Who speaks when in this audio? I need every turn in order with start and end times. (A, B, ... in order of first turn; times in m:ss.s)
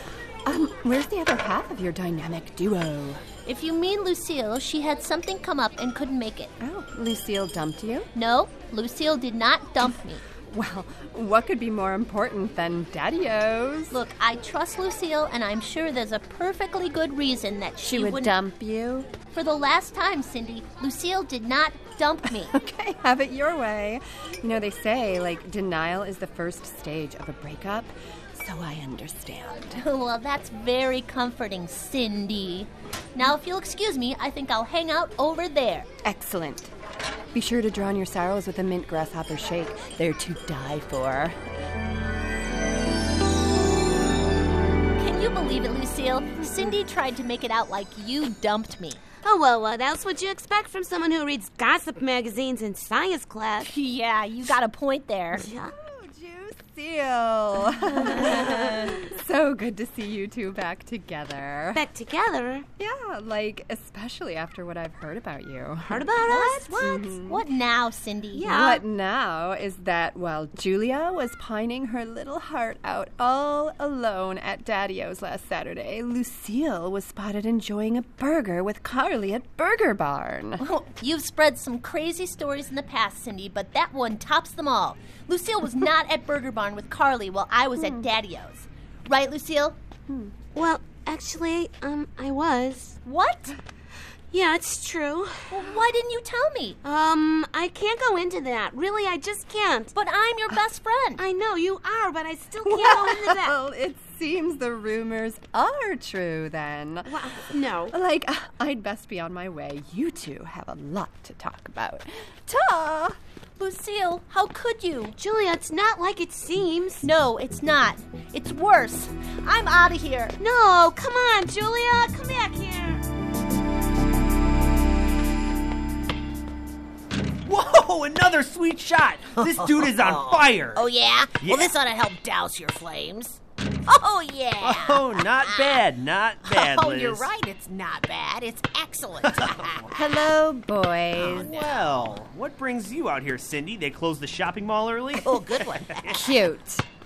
0:00.5-0:03.2 A
0:03.4-0:06.5 B
0:06.6-0:08.1 A
0:08.1-0:10.2 B
0:10.5-0:14.0 A
0:13.9-0:18.3 B
0:17.8-0:19.1 A
0:19.3-0:22.5 B
0:22.4-0:29.8 A
0:29.7-0:35.9 B
0:36.0-0:36.7 A
0:37.3-0:41.4 A
0:45.0-0:49.0 B
0:49.2-0:53.7 C
0:53.6-0:55.5 B
0:55.4-1:01.8 A
0:55.4-0:55.7 C
0:58.0-0:58.8 B
1:01.7-1:02.6 C
1:02.8-1:07.4 A
1:05.9-1:06.6 C
1:06.2-1:08.5 B
1:08.4-1:08.8 C
1:08.4-1:20.6 A
1:20.6-1:29.8 B
1:27.8-1:28.1 A
1:30.5-1:33.0 C
1:33.0-1:33.5 B
1:34.3-1:35.6 C
1:35.5-1:36.8 B
1:36.8-1:39.9 C
1:39.9-1:41.2 B
1:41.2-1:43.5 C
1:42.6-1:53.2 A
1:47.2-1:47.9 C
1:53.6-1:55.2 B
1:55.2-1:57.0 C
1:57.0-2:00.4 B
2:00.4-2:03.0 C
2:07.4-2:10.9 D
2:09.4-2:15.8 E
2:11.4-2:11.8 D
2:14.6-2:17.3 D
2:16.4-2:20.1 E
2:19.2-2:19.9 D
2:19.9-2:21.5 A
2:21.1-2:22.2 E
2:21.3-2:26.2 D
2:25.2-2:26.5 E
2:26.1-2:26.8 A